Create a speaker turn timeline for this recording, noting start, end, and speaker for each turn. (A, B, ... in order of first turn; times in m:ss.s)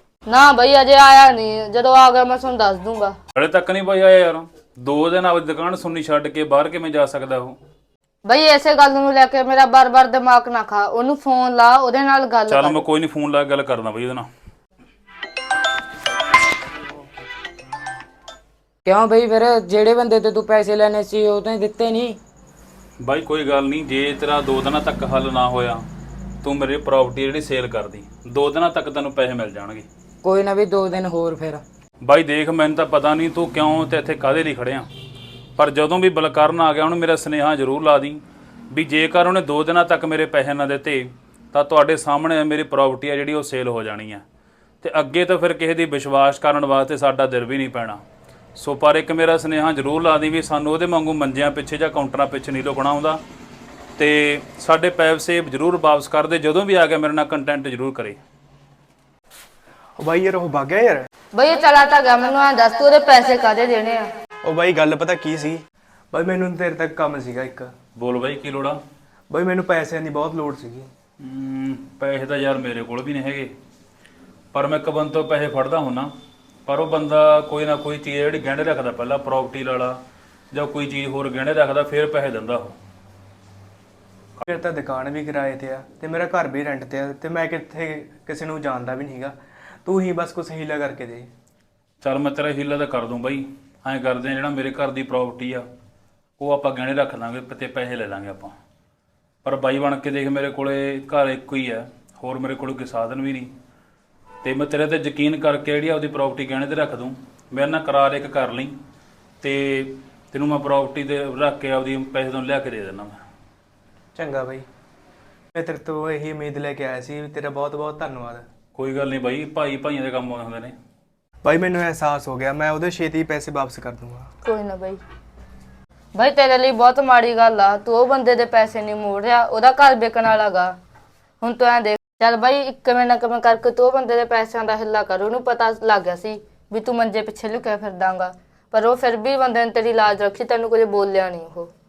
0:00.2-0:03.2 A
0:03.3-0:07.6 B
0:08.2-0:12.8 A
0:12.5-0:14.3 B
0:18.8-0:22.2 C
0:23.0-0:25.8 B
0:26.4-0:29.8 B
0:30.2-0:31.6 C
0:32.0-0:34.9 B
0:35.6-0:44.2 B
0:44.8-0:48.0 B
0:48.6-0:53.2 B
0:54.0-0:58.2 B
1:00.0-1:01.1 D
1:01.3-1:04.1 A
1:04.4-1:07.7 D
1:08.0-1:08.8 B
1:09.3-1:10.9 D
1:11.2-1:13.5 B
1:14.5-1:16.1 B
1:16.7-1:20.0 B
1:20.5-1:22.7 B
1:24.4-1:31.3 D
1:32.0-1:35.6 B
1:36.4-1:38.5 B
1:39.4-1:43.5 B
1:44.4-1:48.8 B
1:49.4-1:53.2 B
1:54.2-1:54.6 D
1:55.5-1:58.4 D
1:58.7-2:00.7 B
2:01.4-2:04.3 D
2:04.4-2:05.0 A
2:06.1-2:10.7 A
2:11.4-2:21.7 A